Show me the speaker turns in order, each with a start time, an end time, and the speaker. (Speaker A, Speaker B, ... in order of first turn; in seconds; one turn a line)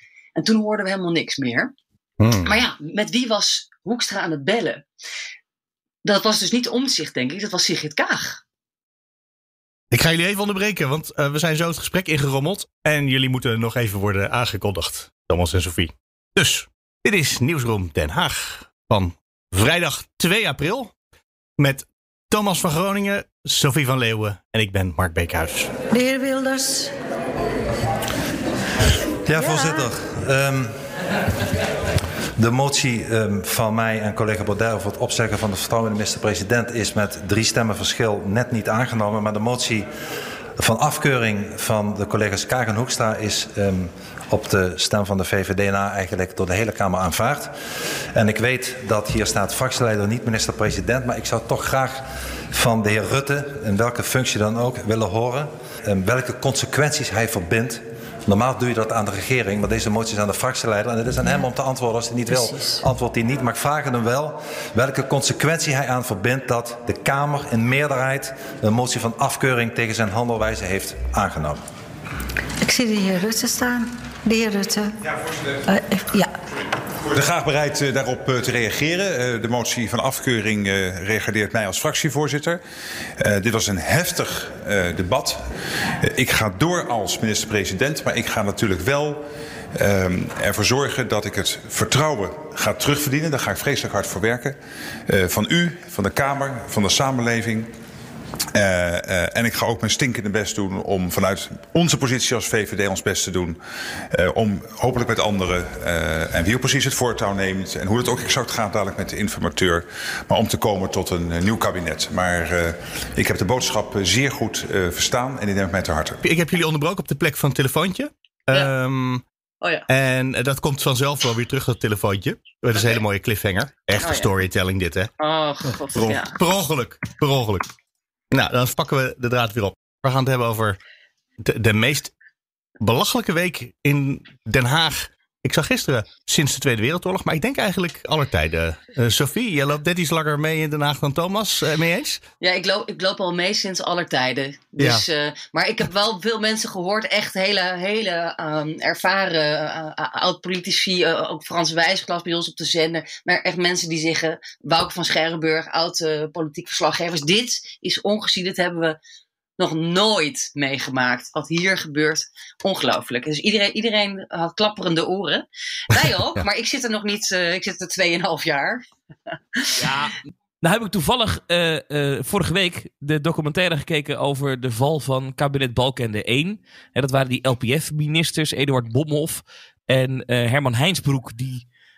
Speaker A: 0.3-1.7
Speaker B: 2.2-2.5
Speaker A: 2.4-4.8
Speaker A: 6.0-8.4
Speaker B: 9.9-20.9
Speaker B: 21.6-25.7
Speaker C: 25.9-26.9
Speaker D: 29.2-30.9
Speaker C: 29.4-29.9
Speaker B: 29.5-29.8
Speaker D: 32.4-39.9
Speaker D: 40.6-47.5
Speaker D: 48.1-71.6
Speaker C: 72.6-74.9
Speaker C: 75.7-76.3
Speaker E: 77.0-82.6
Speaker E: 83.2-85.4
Speaker E: 86.0-89.2
Speaker E: 89.7-97.7
Speaker E: 98.5-103.6
Speaker E: 104.1-116.2
Speaker B: 116.2-119.2
Speaker B: 119.9-125.1
Speaker A: 122.7-123.0
Speaker A: 123.9-124.3
Speaker A: 125.2-126.4
Speaker B: 125.9-127.7
Speaker B: 128.3-130.8
Speaker B: 131.4-132.1
Speaker B: 132.8-142.2
Speaker A: 142.4-159.0
Speaker B: 144.8-145.0
Speaker A: 159.6-168.8
Speaker F: 169.8-181.7